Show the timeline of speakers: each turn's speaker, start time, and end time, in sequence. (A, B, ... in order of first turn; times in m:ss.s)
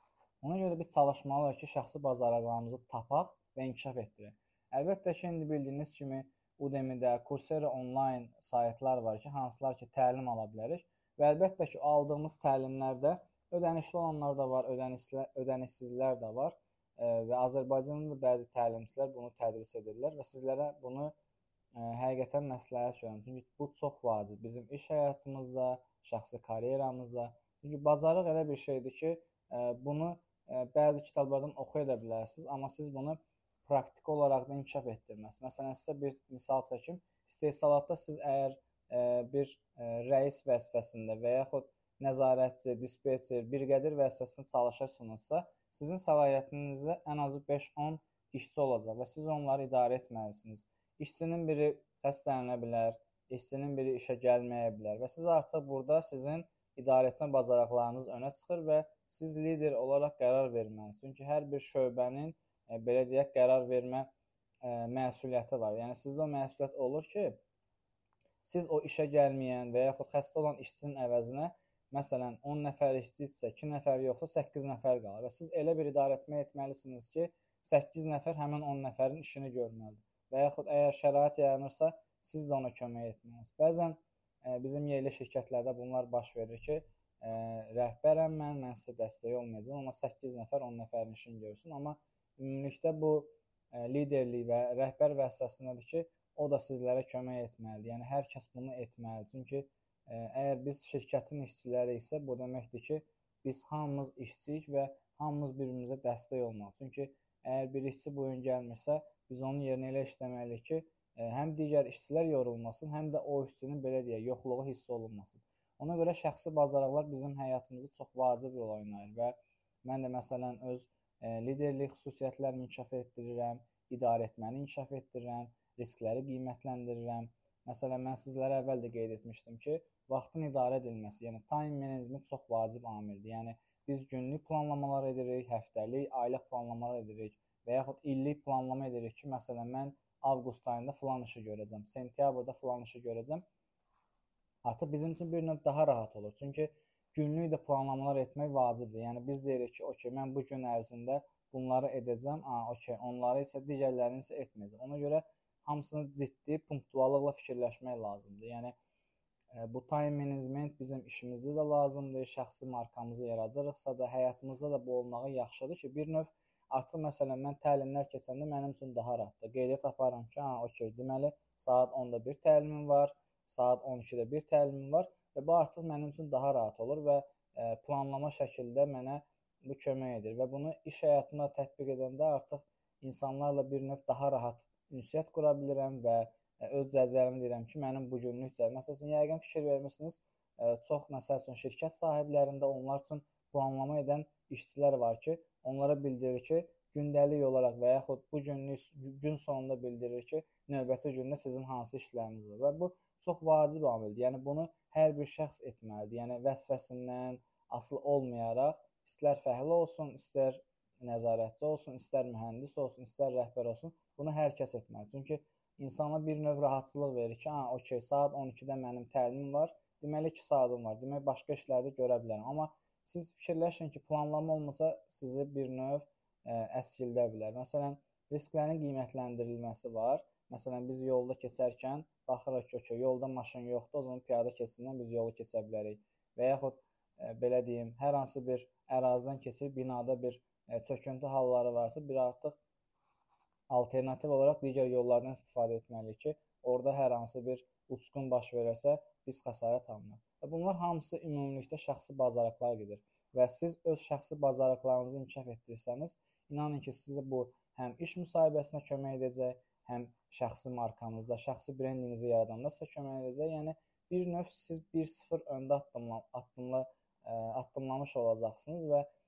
0:00.4-0:21.1 A
0:21.8-1:04.1 A
1:04.6-1:07.4 A
1:08.4-2:23.4 A
2:24.6-2:38.7 A
2:39.5-4:02.6 A
4:03.7-4:29.1 A